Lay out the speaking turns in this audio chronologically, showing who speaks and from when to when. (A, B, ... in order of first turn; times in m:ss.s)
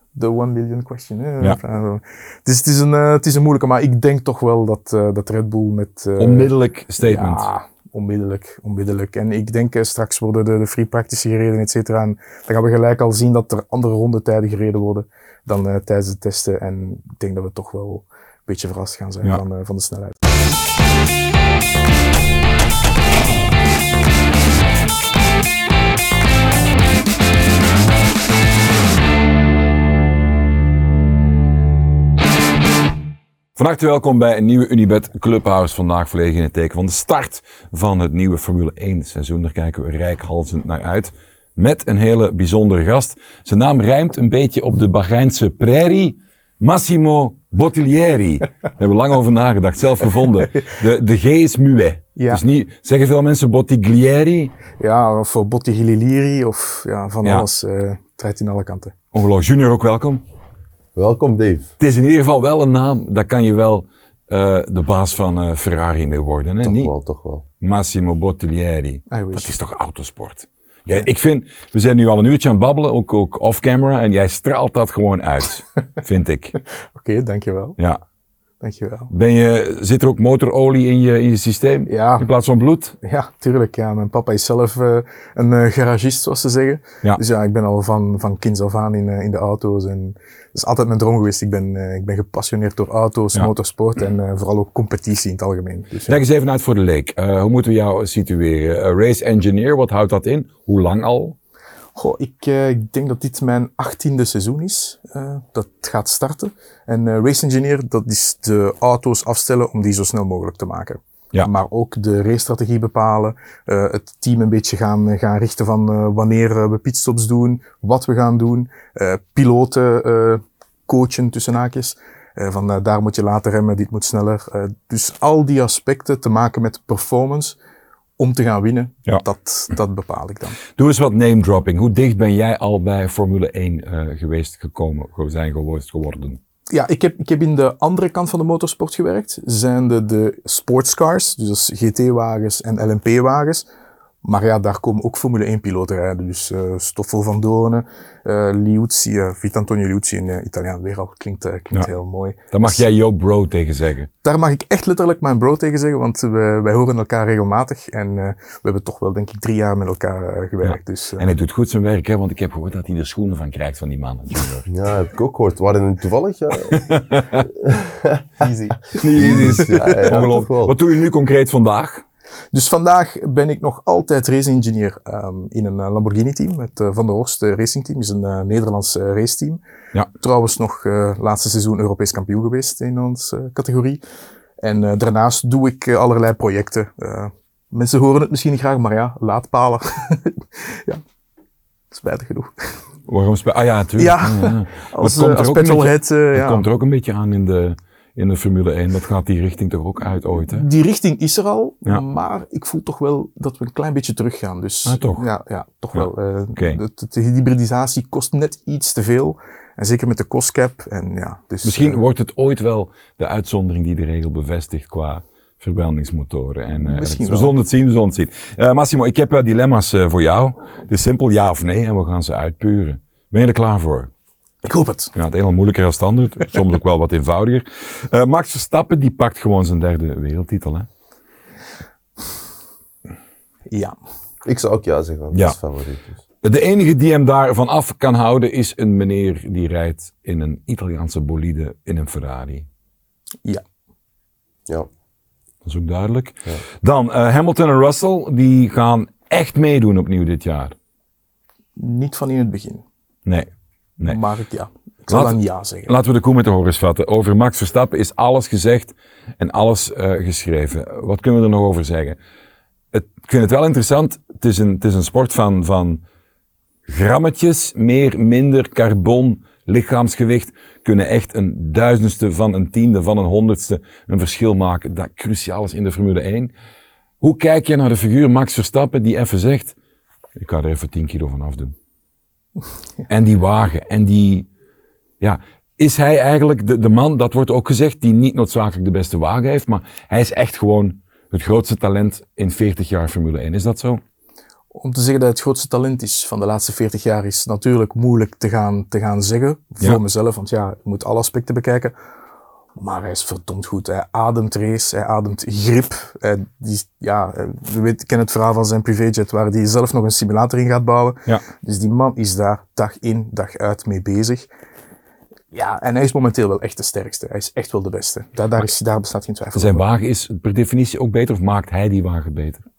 0:00.2-0:06.5 A
0:06.2-0:07.5 B
0:07.0-0:20.2 A
0:33.6-0:54.6 B
0:52.2-0:52.4 A
0:54.8-0:58.9 A
0:59.1-1:00.2 B
1:01.0-1:01.7 C
1:01.8-1:06.9 B
1:06.6-1:07.4 C
1:07.6-1:16.6 B
1:09.1-1:09.5 A
1:17.0-1:17.8 A
1:18.6-1:19.1 A
1:19.1-1:23.0 B
1:21.9-1:22.3 A
1:23.0-1:36.2 A
1:36.1-1:41.4 B
1:42.0-2:07.6 A
2:08.2-2:10.6 A
2:10.8-2:16.4 B
2:16.7-2:23.6 A
2:24.2-2:32.8 A
2:32.5-2:34.1 B
2:34.2-2:41.3 A
2:40.6-2:44.6 B
2:44.7-2:48.2 C
2:46.7-2:47.4 B
2:48.4-2:50.2 A
2:48.9-2:50.7 C
2:49.0-2:52.0 B
2:52.5-2:59.6 A
3:00.2-3:04.0 A
3:04.6-3:11.0 A
3:11.9-3:12.8 A
3:13.1-3:20.6 B
3:14.0-3:16.7 A
3:20.5-3:32.0 A
3:24.9-3:25.2 B
3:25.9-3:26.8 B
3:31.6-3:44.1 B
3:36.8-3:37.5 A
3:44.6-3:45.1 A
3:45.2-3:50.9 B
3:53.7-3:54.0 A
3:54.4-3:56.2 C
3:55.3-3:55.6 B
3:56.4-4:02.7 B
4:05.6-4:10.8 B
4:11.8-4:12.8 A
4:14.0-4:15.9 A
4:15.1-4:22.2 B
4:22.9-4:26.0 B
4:26.9-4:36.5 B
4:37.2-4:39.8 B
4:40.4-4:41.7 B
4:43.1-4:44.5 B
4:45.2-4:54.0 B
4:54.7-5:02.0 A
5:02.8-5:14.5 A
5:15.5-5:19.8 A
5:19.6-5:22.6 B